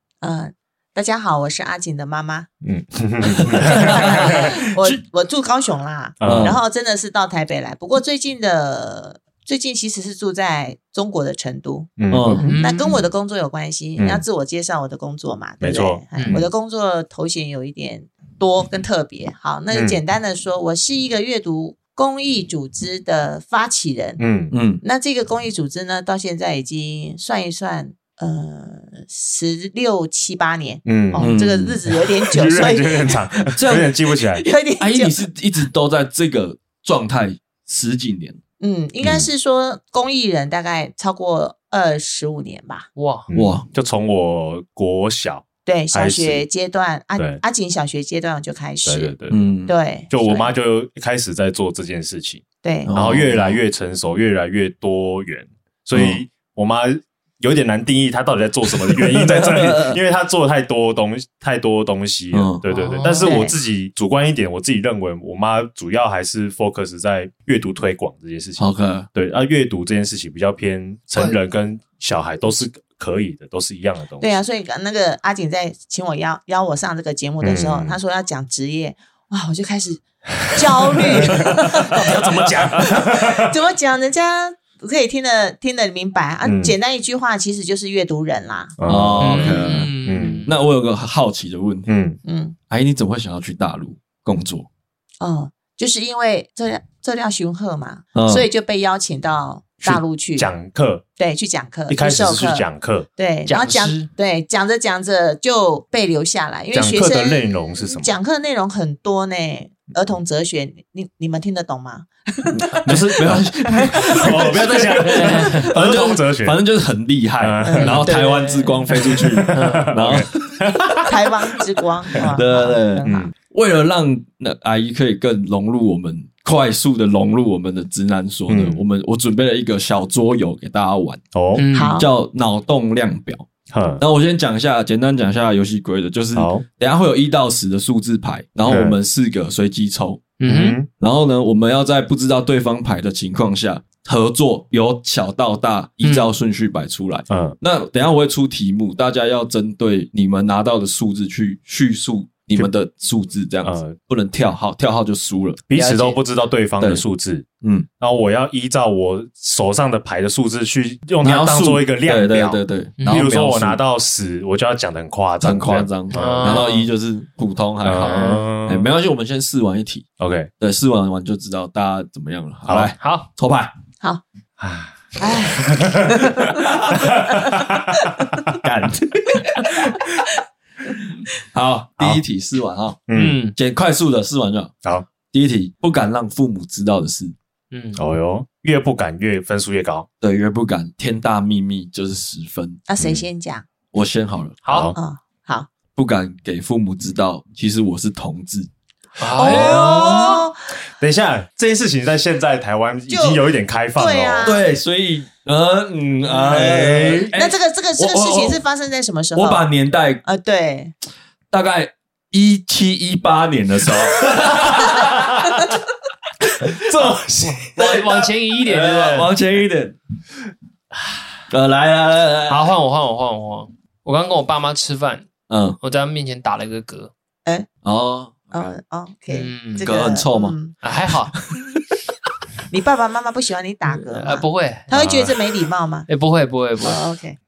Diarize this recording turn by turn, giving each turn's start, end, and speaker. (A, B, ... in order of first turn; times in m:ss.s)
0:00.2-0:02.5 A
0:02.6-0:04.6 B
0:03.4-0:04.2 C
0:03.7-0:24.2 A
0:06.2-0:06.6 B
0:06.2-0:06.6 C
0:12.0-0:12.4 B
0:12.1-0:12.6 C
0:12.3-0:13.1 D
0:14.0-0:14.2 B
0:15.6-0:16.5 B
0:16.2-0:16.4 D
0:19.7-0:20.0 B
0:24.2-0:24.6 B
0:24.5-0:24.8 C
0:24.8-0:33.2 A
0:30.8-0:34.4 B
0:31.2-0:31.8 C
0:33.4-0:33.9 C
0:34.3-0:35.2 A
0:34.8-0:38.4 C
0:38.6-0:42.9 A
0:39.0-0:39.3 B
0:43.0-0:43.3 D
0:43.3-0:46.4 B
0:43.3-0:43.7 C
0:45.7-0:49.1 A
0:48.9-0:49.4 B
0:49.3-0:49.7 C
0:49.7-0:50.5 A
0:50.1-1:14.3 B
0:52.6-0:52.9 A
0:52.9-0:53.6 C
0:56.0-0:56.2 C
0:58.7-1:00.0 C
1:02.3-1:02.6 C
1:02.7-1:03.3 D
1:03.1-1:03.5 A
1:08.6-1:09.1 C
1:14.2-1:28.8 A
1:17.4-1:18.0 B
1:21.2-1:23.5 B
1:21.3-1:22.9 C
1:26.4-1:26.8 B
1:28.8-1:30.5 B
1:28.9-1:29.9 C
1:29.2-1:30.5 D
1:30.5-1:31.9 C
1:31.9-1:32.2 B
1:32.2-1:32.6 A
1:32.7-1:34.7 C
1:35.2-1:40.5 A
1:38.2-1:38.5 C
1:39.8-1:41.0 B
1:41.2-1:53.0 A
1:41.9-1:43.1 B
1:43.5-1:44.1 D
1:46.7-1:48.1 B
1:52.5-2:00.9 C
1:54.0-1:56.6 B
1:55.0-1:55.7 D
1:57.4-1:58.1 B
1:57.6-1:59.0 A
1:57.8-1:58.3 D
1:59.0-2:01.0 B
1:59.5-1:59.9 D
2:01.0-2:03.3 A
2:02.1-2:11.2 C
2:03.0-2:03.3 B
2:08.5-2:08.8 B
2:11.3-2:11.6 B
2:11.6-2:12.0 D
2:11.7-2:12.1 A
2:11.9-2:13.5 C
2:13.7-2:14.0 B
2:14.0-2:20.3 C
2:16.4-2:16.6 B
2:18.7-2:19.0 B
2:20.4-2:20.8 D
2:20.5-2:20.9 B
2:21.0-2:35.6 C
2:26.0-2:26.3 D
2:27.3-2:27.6 B
2:33.6-2:34.0 B
2:35.7-2:37.5 B
2:35.7-2:36.2 D
2:37.6-2:37.9 C
2:38.0-2:46.7 B
2:41.2-2:43.8 C
2:43.0-2:43.3 D
2:45.4-2:50.1 C
2:46.1-2:46.9 D
2:47.8-2:48.9 B
2:48.0-2:48.5 D
2:50.2-2:50.5 B
2:50.6-2:53.7 C
2:52.7-2:52.9 B
2:53.0-2:53.3 D
2:54.6-2:58.6 B
2:55.2-2:56.7 A
2:58.6-2:59.9 C
3:01.5-3:04.7 C
3:03.1-3:03.4 B
3:03.1-3:03.6 D
3:05.3-3:07.3 C
3:07.7-3:08.0 D
3:08.0-3:10.1 B
3:10.2-3:12.8 C
3:12.9-3:13.7 A
3:13.9-3:14.6 C
3:14.6-3:15.0 D
3:14.7-3:15.0 B
3:15.0-3:15.7 A
3:16.0-3:18.7 C
3:19.2-3:20.4 D
3:19.3-3:20.6 A
3:19.4-3:20.4 C
3:21.0-3:24.6 B
3:23.1-3:23.4 A
3:24.0-3:24.6 A
3:24.4-3:28.6 C
3:26.4-3:27.3 B
3:27.3-3:29.7 A
3:29.4-3:30.2 C
3:30.2-3:30.9 A
3:31.5-3:35.6 C
3:36.6-3:40.0 C
3:36.8-3:37.7 B
3:37.6-3:39.3 D
3:41.5-3:42.7 C
3:42.5-3:45.3 D
3:45.5-3:45.8 C
3:45.8-3:47.1 D
3:47.8-3:48.7 C
3:48.5-3:50.7 A
3:49.3-3:49.9 D
3:49.8-3:50.6 C
3:50.8-3:51.4 D
3:51.5-3:51.8 C
3:52.7-3:56.1 A
3:54.0-3:54.9 D
3:54.9-3:55.4 B
3:56.1-3:57.0 D
3:56.8-3:57.4 A